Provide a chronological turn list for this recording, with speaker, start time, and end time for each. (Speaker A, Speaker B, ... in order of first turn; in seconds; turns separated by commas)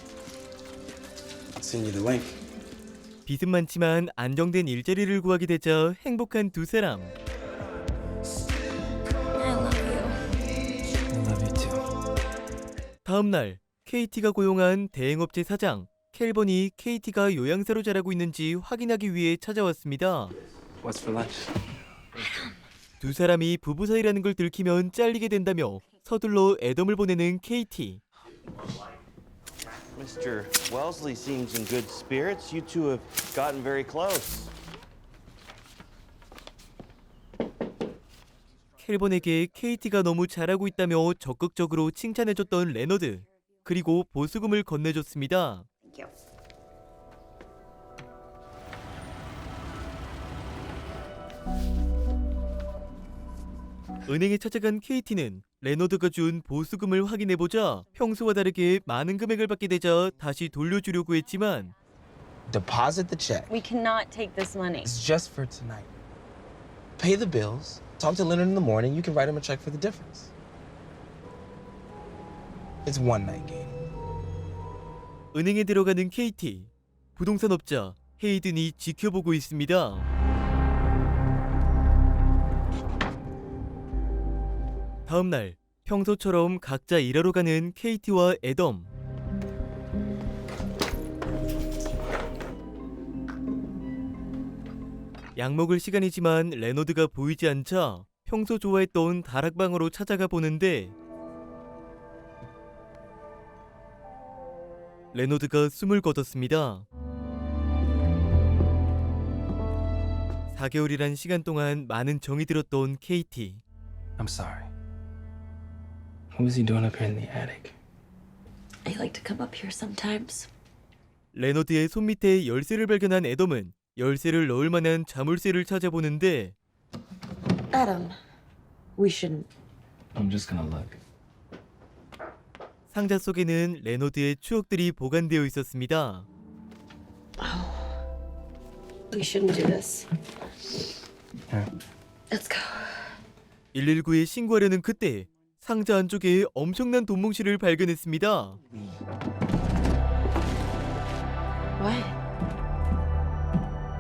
Speaker A: 1.6-2.2, Speaker B: 1.6-2.4, Speaker C: 3.3-7.2, Speaker D: 9.3-10.3, Speaker C: 13.0-20.4, Speaker A: 20.8-21.3, Speaker C: 23.0-28.0, Speaker E: 29.9-34.5, Speaker C: 38.8-45.7, Speaker D: 45.8-46.1, Speaker C: 54.1-61.7, Speaker A: 62.5-63.4, Speaker B: 62.6-63.5, Speaker D: 63.5-64.9, Speaker A: 64.8-65.8, Speaker B: 65.3-65.8, Speaker A: 67.0-70.1, Speaker B: 67.6-68.1, Speaker B: 68.8-69.3, Speaker B: 70.0-70.3, Speaker B: 72.9-73.7, Speaker A: 72.9-73.6, Speaker C: 75.3-80.1, Speaker C: 85.1-88.9, Speaker C: 95.4-100.9, Speaker C: 105.1-106.9, Speaker C: 110.5-113.6, Speaker B: 114.2-114.6, Speaker A: 116.4-117.7, Speaker B: 116.4-117.5, Speaker D: 118.8-120.5, Speaker C: 121.3-126.5, Speaker D: 127.7-128.2, Speaker D: 129.0-129.5, Speaker A: 130.2-130.9, Speaker C: 132.9-136.3, Speaker D: 137.4-137.9, Speaker D: 139.1-140.1, Speaker D: 142.3-143.2, Speaker C: 143.7-148.6, Speaker D: 151.8-152.1